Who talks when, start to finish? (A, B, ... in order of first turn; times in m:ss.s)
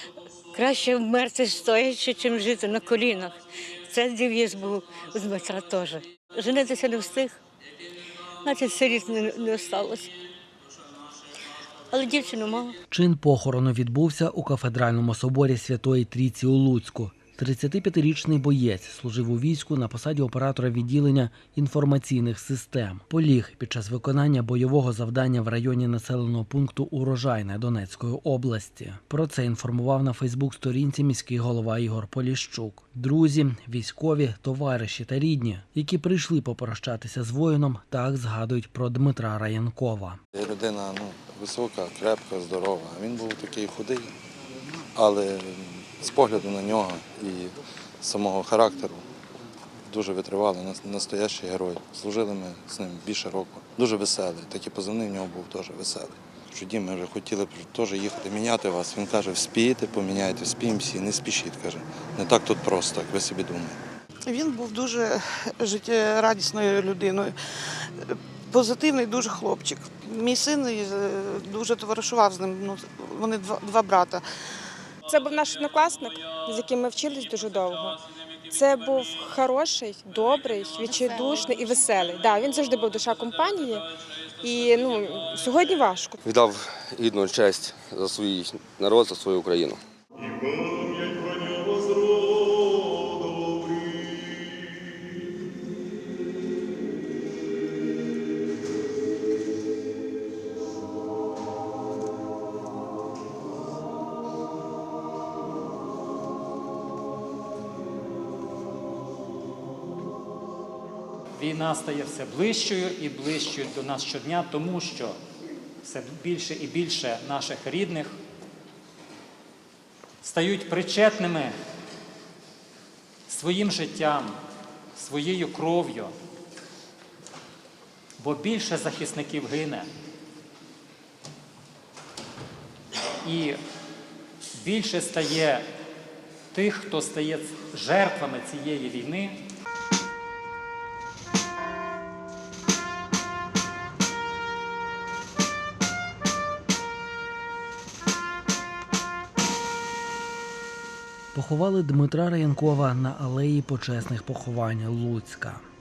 0:00.5-0:07.4 A
0:08.4-0:10.1 A
0:11.9-0:12.8 A
0:12.9-0:40.2 B
0:40.3-0:44.1 C
0:44.9-0:49.0 C
0:49.8-1:03.8 C
1:04.3-1:07.4 D
1:08.0-1:14.2 D
1:15.1-1:18.0 E
1:18.5-1:23.8 E
1:24.4-1:26.2 E
1:26.2-1:29.8 F
1:51.4-1:55.2 G
1:55.8-1:58.1 G
2:00.2-2:01.5 G
2:03.3-2:04.4 G
2:05.0-2:06.1 G
2:08.2-2:09.9 G
2:13.2-2:13.6 G
2:14.6-2:15.7 G
2:16.5-2:19.4 G
2:31.3-2:35.6 B